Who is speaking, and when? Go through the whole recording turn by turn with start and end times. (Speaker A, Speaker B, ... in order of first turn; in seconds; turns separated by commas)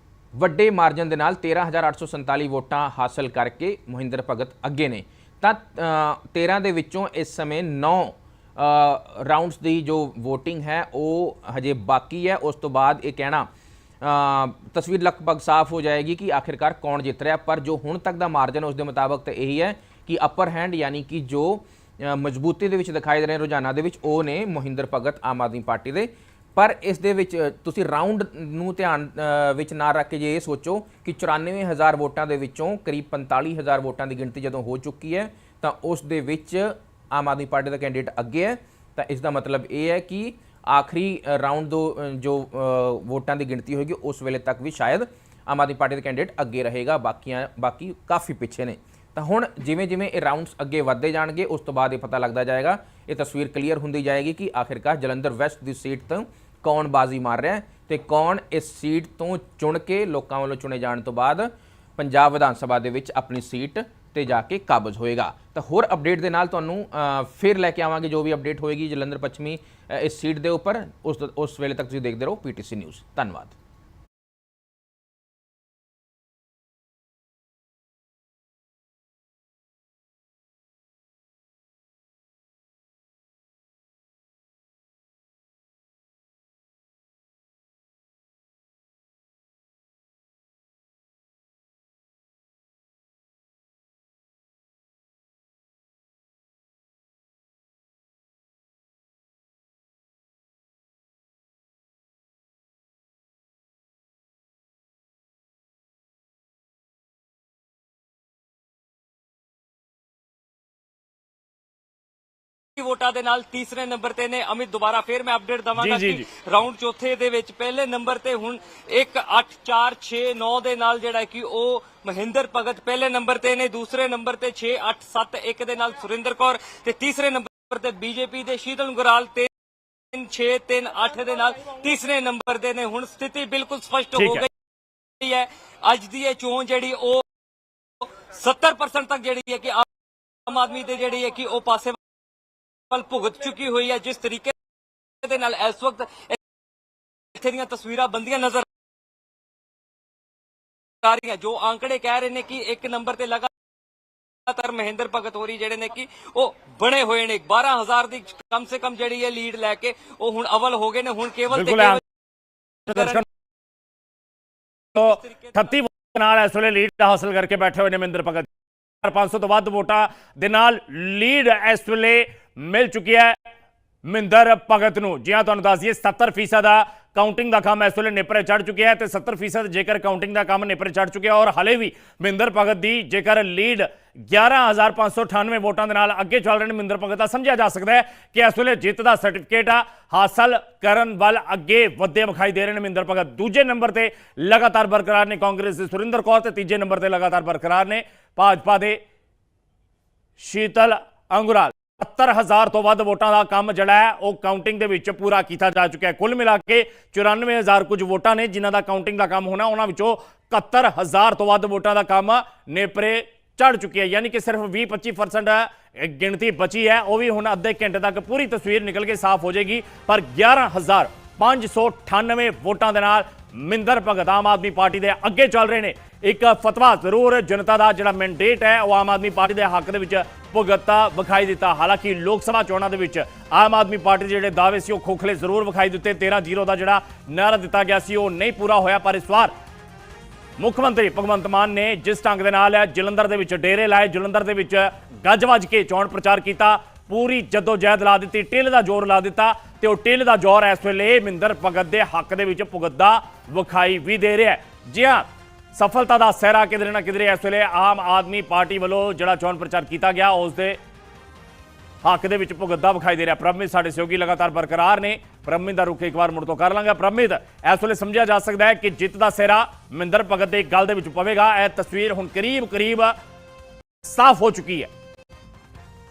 Speaker A: 0.3-13.5, Speaker A: 14.0-73.5, Speaker B: 112.8-129.5, Speaker C: 115.8-116.2, Speaker B: 130.1-134.5, Speaker C: 134.2-134.4, Speaker B: 135.2-137.2, Speaker B: 138.0-139.9, Speaker B: 140.4-142.0, Speaker B: 142.9-144.5, Speaker B: 145.2-146.4, Speaker B: 147.3-148.6, Speaker B: 151.0-153.5, Speaker B: 154.5-162.0, Speaker C: 161.5-162.0, Speaker B: 162.9-163.2, Speaker C: 162.9-163.2, Speaker B: 164.9-165.8, Speaker C: 164.9-168.5, Speaker C: 169.0-173.4, Speaker C: 174.0-199.0, Speaker C: 200.4-239.5, Speaker C: 240.6-260.8, Speaker C: 262.0-273.1, Speaker C: 274.0-274.9